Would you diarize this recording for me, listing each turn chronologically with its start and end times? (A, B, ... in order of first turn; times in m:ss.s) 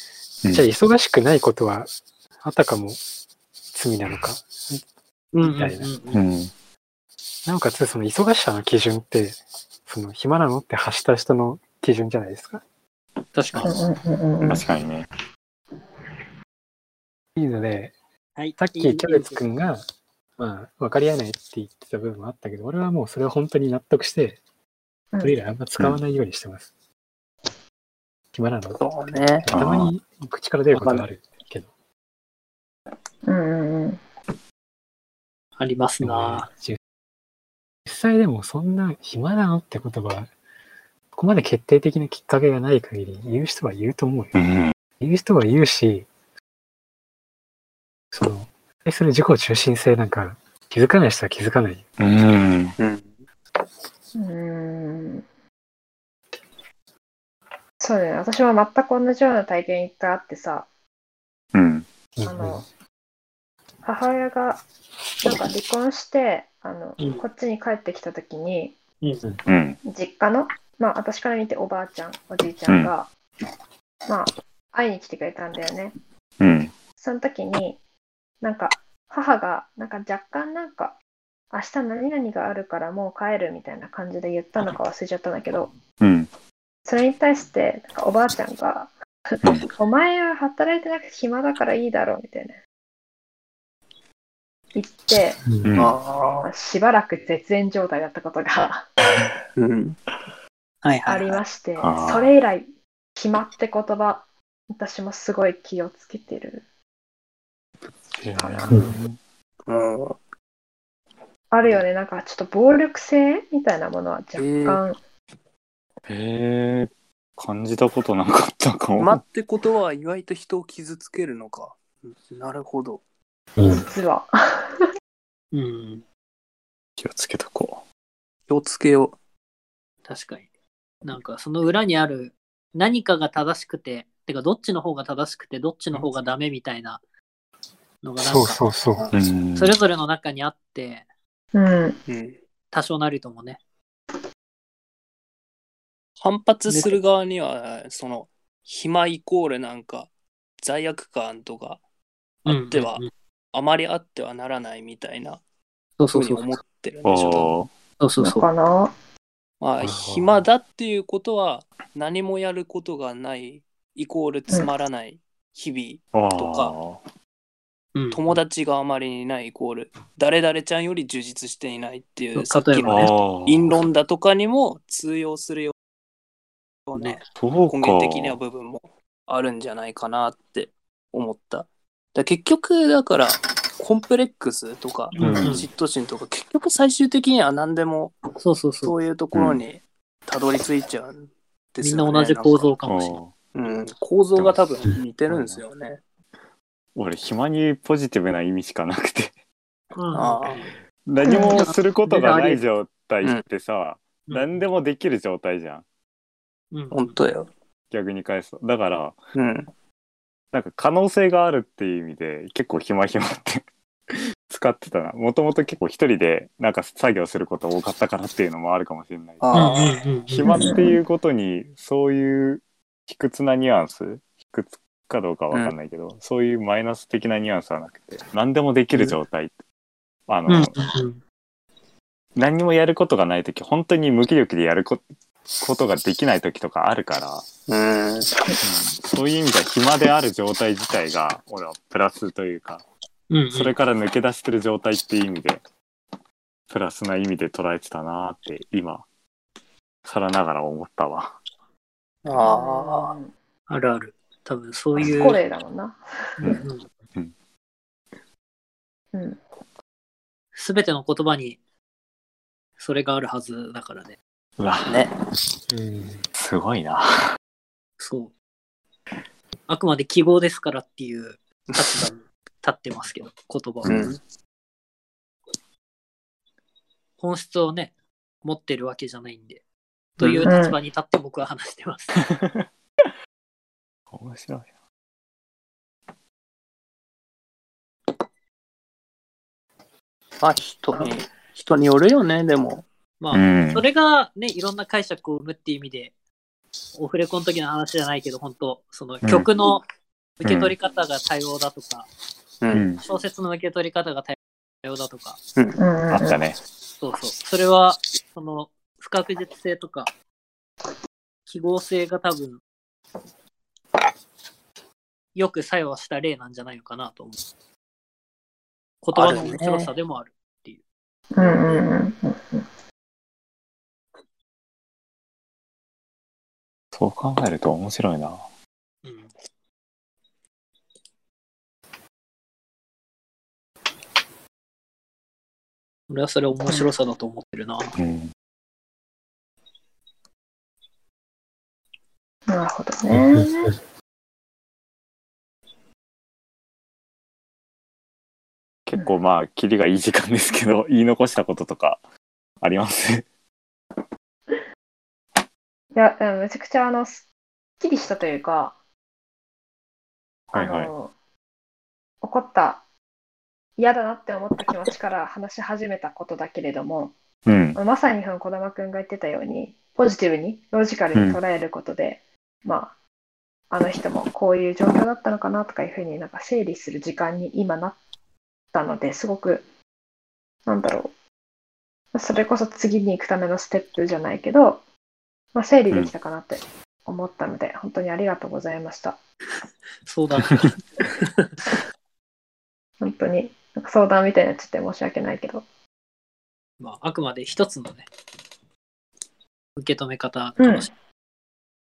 0:00.5-0:03.0 A
0:03.7-0:04.8 A
0:05.3-0:06.2 B
0:05.4-0:05.9 A
0:06.1-0:06.5 C
0:07.4-0:12.6 A
0:13.3-0:13.8 B
0:13.5-0:13.8 C
0:13.6-0:14.6 D
0:14.4-0:15.1 C
0:17.4-0:17.9 A
0:18.4-0:19.4 B
0:18.6-0:19.8 A
0:20.4-0:24.4 A
0:25.2-0:26.7 A
0:28.3-0:28.9 A
0:28.8-0:29.5 E
0:29.4-0:31.7 A
0:29.5-0:29.9 C
0:30.7-0:31.0 B
0:33.2-0:34.0 D
0:35.6-0:36.5 B
0:36.0-0:36.8 A
0:37.9-0:40.3 A
0:41.1-0:44.4 A
0:44.3-0:44.7 C
0:45.0-0:46.1 A
0:48.1-0:51.8 A
0:52.0-0:52.8 C
0:52.8-0:53.1 E
0:54.2-0:55.2 D
0:57.8-1:00.7 D
1:01.5-1:01.9 C
1:02.2-1:02.6 A
1:02.2-1:02.6 D
1:03.8-1:04.6 D
1:05.2-1:08.8 D
1:09.5-1:09.8 C
1:09.8-1:13.1 D
1:14.1-1:16.0 D
1:16.4-1:16.7 C
1:17.0-1:17.8 D
1:18.4-1:21.0 D
1:21.5-1:25.7 D
1:26.0-1:26.3 C
1:26.9-1:32.6 D
1:29.4-1:29.7 C
1:34.7-1:35.5 D
1:35.6-1:36.0 C
1:35.8-1:36.5 E
1:36.4-1:38.9 D
1:39.6-1:40.0 E
1:40.8-1:41.4 B
1:41.0-1:46.6 D
1:41.8-1:42.3 C
1:48.2-1:49.2 C
1:48.4-1:48.7 D
1:49.7-1:50.2 E
1:51.5-1:55.0 D
1:54.4-1:54.8 E
1:56.1-1:59.2 C
1:59.0-2:03.0 E
2:03.6-2:03.9 A
2:03.6-2:04.8 D
2:05.5-2:06.0 B
2:07.0-2:07.8 C
2:08.5-2:09.2 E
2:10.1-2:10.5 B
2:11.0-2:17.0 B
2:18.0-2:18.6 B
2:18.2-2:19.0 A
2:19.1-2:19.8 C
2:19.6-2:21.0 B
2:21.5-2:22.0 D
2:22.1-2:22.4 E
2:22.7-2:23.6 B
2:26.2-2:30.1 E
2:26.7-2:27.0 B
2:30.6-2:31.8 E
2:32.4-2:33.0 E
2:32.5-2:33.1 B
2:33.5-2:35.4 E
2:36.0-2:36.6 B
2:36.1-2:37.5 E
2:37.0-2:37.7 C
2:38.0-2:38.5 B
2:38.2-2:38.9 D
2:39.6-2:46.8 E
2:39.8-2:40.4 A
2:46.1-2:47.0 C
2:47.9-2:48.2 B
2:48.1-2:55.7 E
2:52.4-2:53.1 B
2:52.8-2:53.8 C
2:56.9-3:08.2 E
2:56.9-2:57.2 B
2:57.4-2:58.4 C
3:05.1-3:05.7 B
3:05.2-3:05.7 C
3:08.4-3:08.9 B
3:08.8-3:12.7 E
3:09.3-3:09.6 C
3:11.8-3:13.2 B
3:12.8-3:13.3 C
3:13.5-3:16.0 E
3:15.3-3:15.6 C
3:16.9-3:19.3 C
3:19.9-3:20.8 B
3:20.1-3:20.7 E
3:21.0-3:25.8 C
3:21.2-3:21.6 D
3:21.5-3:22.6 B
3:24.3-3:24.6 B
3:26.7-3:27.2 B
3:26.9-3:27.5 E
3:27.9-3:29.2 C
3:29.4-3:29.7 E
3:30.5-3:39.6 C
3:39.4-3:40.0 E
3:39.5-3:40.8 B
3:40.3-3:49.5 C
3:40.5-3:41.0 D
3:50.3-3:50.8 C
3:50.5-3:51.2 B
3:52.4-3:55.0 C
3:55.6-3:57.5 C
3:57.7-3:58.3 E
3:58.6-4:02.8 C
4:03.3-4:03.7 B
4:03.5-4:05.6 C
4:06.7-4:09.0 C
4:10.0-4:11.4 C
4:12.2-4:13.2 E
4:12.3-4:13.3 D
4:13.7-4:15.4 B
4:15.0-4:16.4 D
4:16.4-4:16.9 B
4:16.4-4:17.3 C
4:19.1-4:19.4 D
4:20.5-4:21.6 B
4:22.8-4:24.2 B
4:24.6-4:25.1 C
4:24.8-4:25.1 E
4:25.7-4:26.2 A
4:26.4-4:27.4 C
4:28.0-4:28.3 B
4:29.7-4:34.0 B
4:33.8-4:34.2 C
4:33.8-4:34.2 E
4:37.2-4:37.9 B
4:38.4-4:39.6 B
4:40.2-4:40.5 E
4:40.2-4:42.2 B
4:40.4-4:40.8 D
4:42.2-4:43.1 C
4:44.1-4:44.7 C
4:50.4-4:52.8 E
4:53.2-4:56.1 B
4:53.3-4:53.8 C
4:57.0-4:59.8 B
4:59.2-4:59.5 C
5:00.4-5:02.1 B
5:00.4-5:00.8 C
5:02.7-5:03.0 C
5:03.0-5:05.4 B
5:05.8-5:06.4 D
5:06.1-5:06.6 C
5:07.0-5:10.1 B
5:11.5-5:12.6 B
5:15.4-5:17.4 B
5:19.0-5:20.8 B
5:19.1-5:19.9 E
5:21.3-5:22.6 D
5:21.4-5:21.8 E
5:26.9-5:28.4 C
5:29.0-5:29.3 B
5:36.1-5:38.0 B
5:38.0-5:38.3 C
5:42.5-5:43.8 D
5:43.2-5:43.4 A
5:48.9-5:52.0 C
5:52.6-5:53.2 C
5:55.9-5:57.3 D
5:57.8-5:58.8 D
6:00.5-6:01.1 D
6:00.5-6:00.9 C
6:02.2-6:02.8 D
6:03.8-6:07.2 D
6:07.4-6:07.8 C
6:07.8-6:12.9 D
6:11.1-6:11.4 C
6:13.7-6:18.0 D
6:18.7-6:19.6 D
6:20.6-6:21.1 D
6:22.1-6:24.8 D
6:25.5-6:29.2 D
6:30.0-6:31.8 B
6:33.0-6:35.6 D
6:36.8-6:38.1 B
6:39.8-6:40.9 B
6:40.6-6:40.9 D